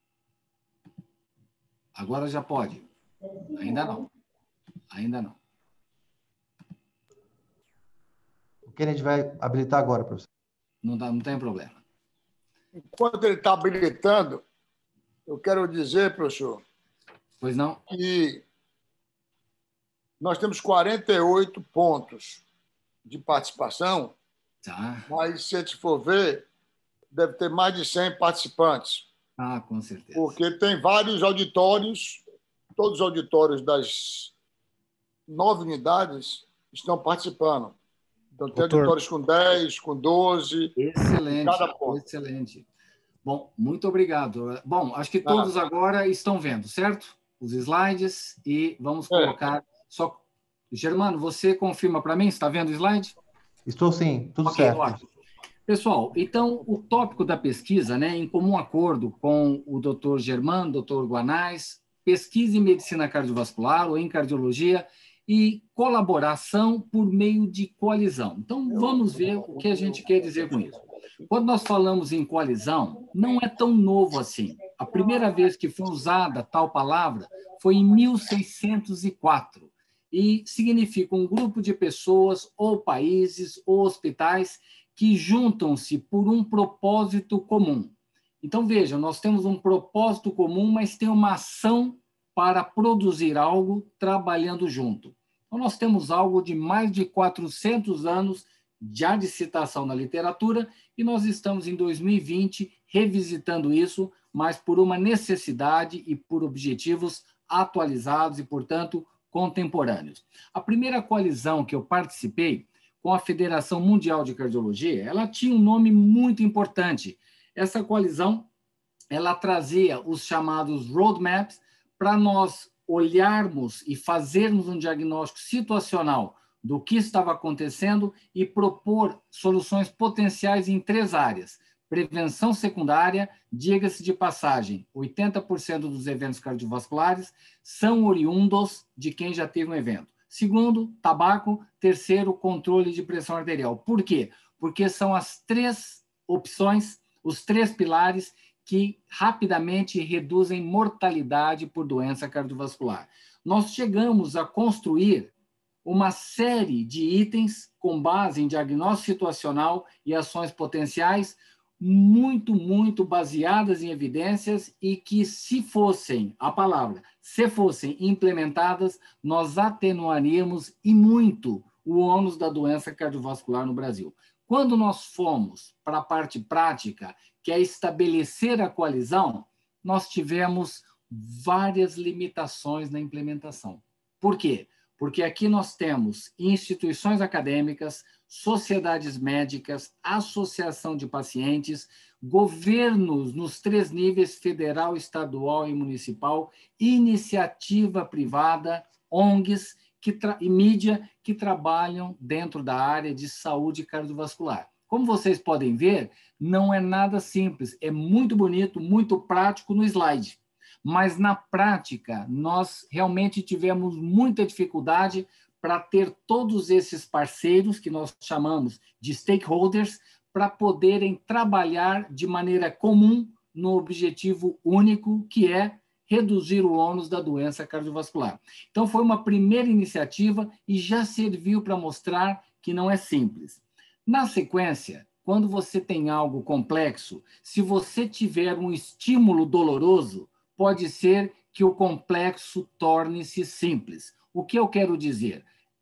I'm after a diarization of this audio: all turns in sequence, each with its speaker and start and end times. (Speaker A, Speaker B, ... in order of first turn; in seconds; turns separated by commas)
Speaker A: 1.9-2.9, Speaker A: 3.4-4.1, Speaker A: 4.9-5.4, Speaker B: 8.7-10.3, Speaker A: 10.8-11.8, Speaker C: 12.9-14.4, Speaker C: 15.3-16.6, Speaker A: 17.4-17.8, Speaker C: 17.9-18.4, Speaker C: 20.2-22.4, Speaker C: 23.1-24.1, Speaker A: 24.6-25.1, Speaker C: 25.1-26.4, Speaker C: 27.1-29.1, Speaker A: 29.4-30.4, Speaker C: 30.1-32.2, Speaker C: 32.8-34.3, Speaker C: 35.3-37.8, Speaker C: 38.4-40.8, Speaker A: 40.8-42.7, Speaker C: 41.3-42.0, Speaker A: 43.2-53.1, Speaker C: 45.2-45.5, Speaker B: 53.6-55.0, Speaker A: 54.4-55.0, Speaker A: 55.7-118.5, Speaker C: 68.9-70.1, Speaker A: 119.1-155.3, Speaker A: 155.8-245.5